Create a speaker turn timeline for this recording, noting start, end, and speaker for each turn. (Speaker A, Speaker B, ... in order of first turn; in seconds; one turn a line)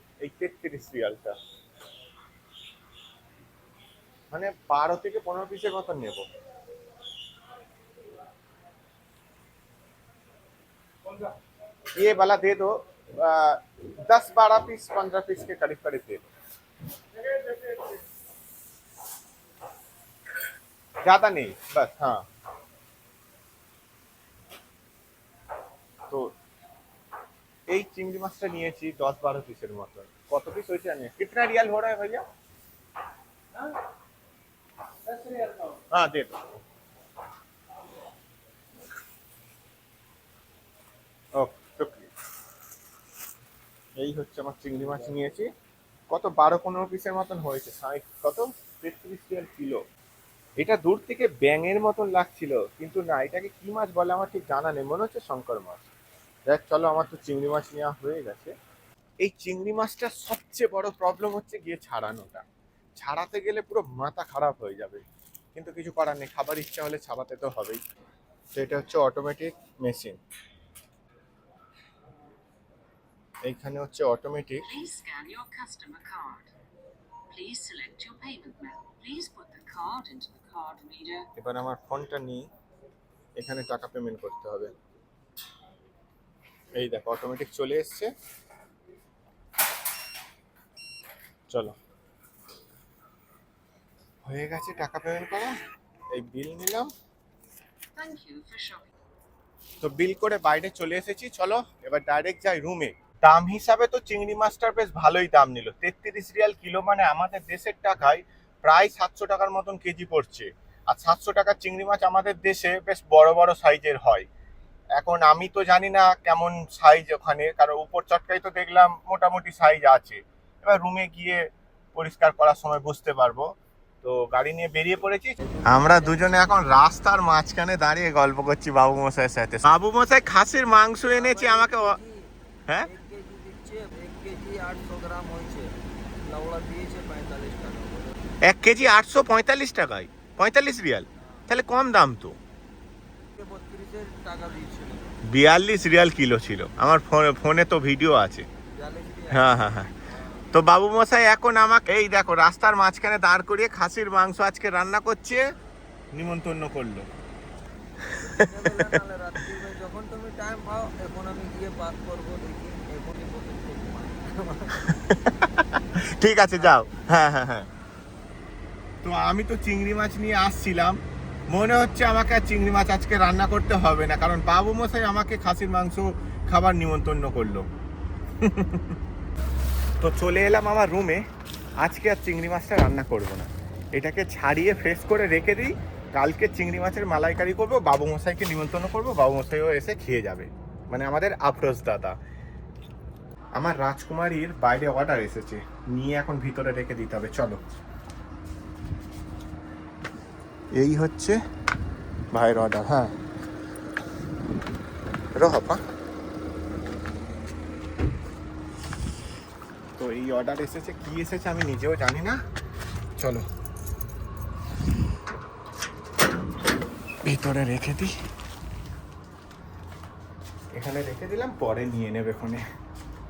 Speaker A: 0.2-1.4
Speaker A: 4.3-6.2
Speaker A: 11.9-16.2
Speaker A: 21.0-22.2
Speaker A: 27.7-32.2
Speaker A: 35.4-36.5
Speaker A: 41.4-42.1
Speaker A: 44.0-45.5
Speaker A: 46.1-49.8
Speaker A: 50.6-55.9
Speaker A: 56.5-58.5
Speaker A: 59.2-62.5
Speaker A: 63.0-67.8
Speaker A: 68.5-70.2
Speaker A: 73.5-74.7
Speaker B: 74.6-76.5
Speaker B: 77.3-81.3
Speaker A: 81.4-82.5
Speaker A: 83.4-84.7
Speaker A: 86.8-88.1
Speaker A: 91.5-91.8
Speaker A: 94.2-95.5
Speaker A: 96.1-96.9
Speaker B: 98.0-98.9
Speaker A: 99.8-114.3
Speaker A: 115.0-121.4
Speaker A: 122.0-123.5
Speaker A: 124.0-132.0
Speaker C: 125.4-126.5
Speaker C: 131.1-135.7
Speaker C: 136.2-138.2
Speaker A: 138.5-142.4
Speaker C: 143.4-145.2
Speaker A: 145.3-148.5
Speaker C: 148.8-150.5
Speaker A: 149.3-149.9
Speaker A: 150.5-155.4
Speaker A: 156.1-157.1
Speaker C: 158.2-164.8
Speaker A: 164.8-167.7
Speaker C: 166.5-166.9
Speaker A: 169.0-171.0
Speaker A: 171.5-177.7
Speaker A: 178.4-179.0
Speaker A: 180.0-181.2
Speaker A: 181.8-192.2
Speaker A: 193.6-197.6
Speaker A: 200.8-201.4
Speaker A: 202.3-203.1
Speaker A: 205.4-205.8
Speaker A: 210.0-212.4
Speaker A: 213.2-213.4
Speaker A: 217.2-218.1
Speaker A: 220.7-222.6